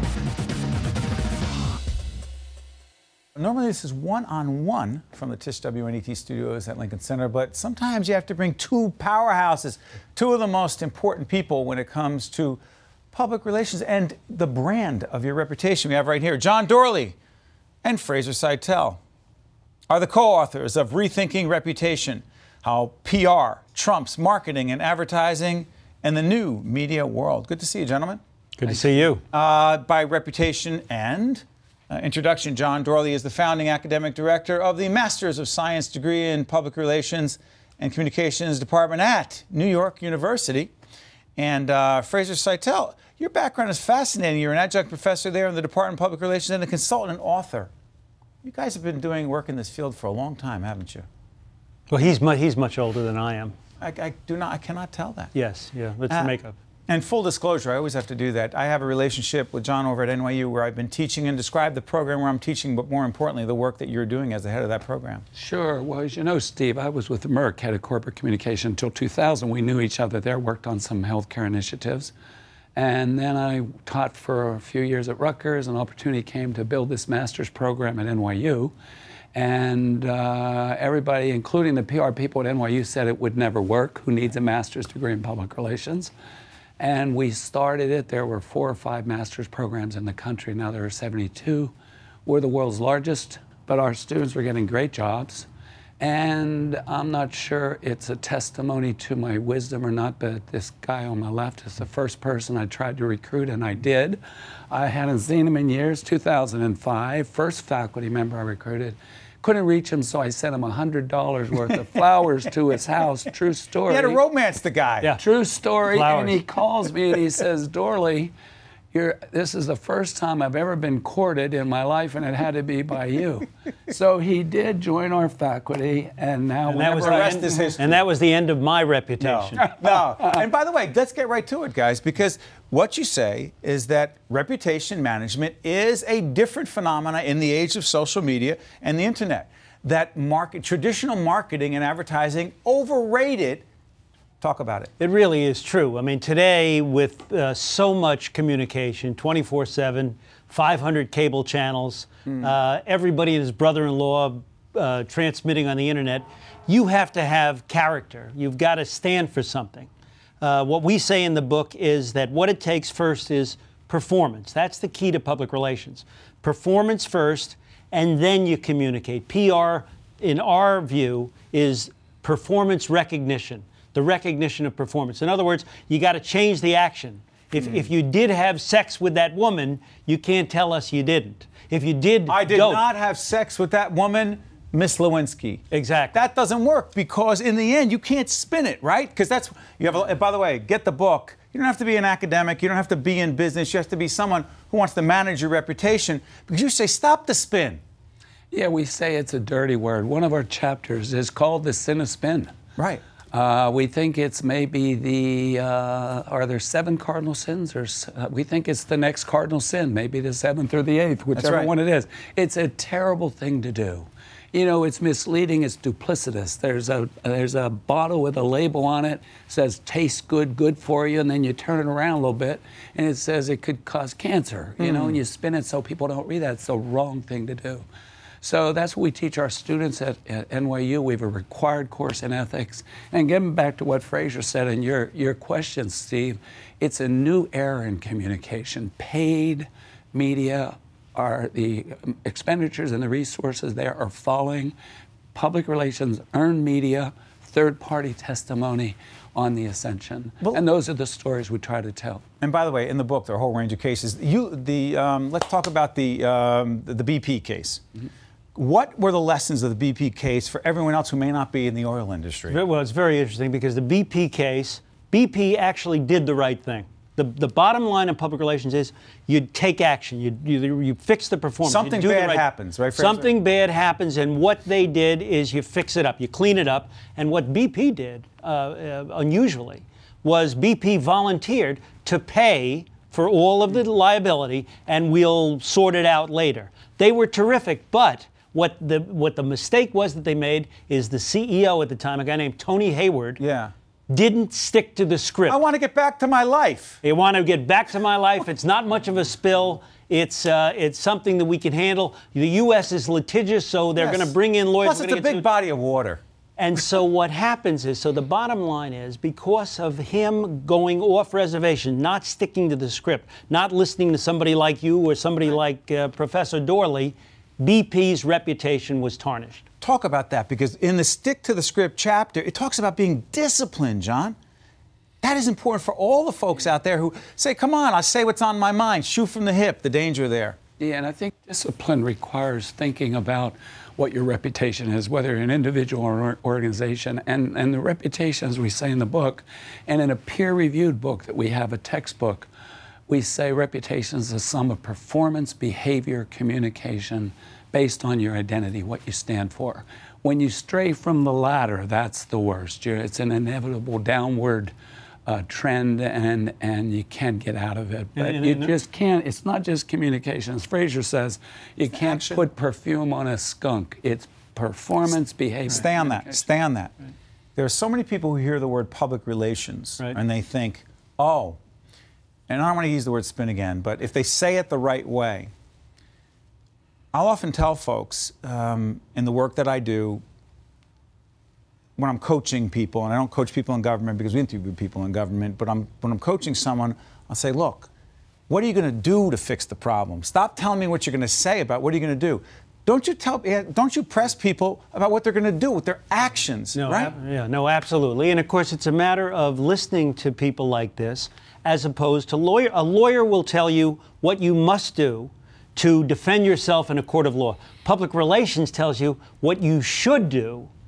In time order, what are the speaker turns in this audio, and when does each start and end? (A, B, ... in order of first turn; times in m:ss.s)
0:03.4-0:12.6 A
0:13.1-0:17.2 A
0:17.8-0:19.0 A
0:19.9-0:28.2 A
0:28.6-0:29.2 B
0:29.3-0:40.7 A
0:41.4-0:47.7 A
0:48.4-0:51.0 A
0:51.9-0:53.5 B
0:53.8-0:55.3 A
0:55.3-0:56.6 B
0:56.9-1:05.2 A
1:05.3-1:12.1 C
1:12.8-1:18.7 C
1:19.3-1:26.1 C
1:26.8-1:31.7 C
1:32.2-1:35.5 C
1:36.0-1:54.2 C
1:53.9-1:55.1 A
1:55.2-1:58.3 C
1:55.9-1:56.4 B
1:58.9-2:07.5 C
2:06.7-2:09.6 B
2:07.0-2:07.9 A
2:09.2-2:23.6 A
2:09.8-2:10.4 C
2:24.4-2:24.9 A
2:25.0-2:39.9 B
2:40.4-3:02.8 B
3:02.3-3:17.8 A
3:05.7-3:06.2 B
3:18.5-3:22.5 C
3:22.8-3:23.0 A
3:23.3-3:47.8 C
3:31.3-3:31.7 A
3:44.8-3:45.2 A
3:48.4-4:04.7 C
4:05.3-4:12.2 C
4:12.4-4:17.8 A
4:18.5-4:22.6 A
4:22.5-4:53.4 B
4:31.6-4:33.3 A
4:53.4-4:53.7 A
4:54.1-4:55.6 B
4:55.5-4:57.0 A
4:57.0-5:05.4 B
5:04.0-5:06.2 A
5:06.6-5:19.6 B
5:19.8-5:24.4 A
5:25.2-5:30.6 A
5:30.8-5:42.5 C
5:43.1-5:54.7 C
5:55.3-6:06.4 C
5:58.2-5:58.7 B
6:02.0-6:02.4 A
6:05.7-6:06.9 A
6:07.6-6:11.6 A
6:12.5-6:15.5 A
6:17.1-6:20.2 A
6:22.0-6:27.9 A
6:28.5-6:37.1 A
6:36.7-6:50.7 B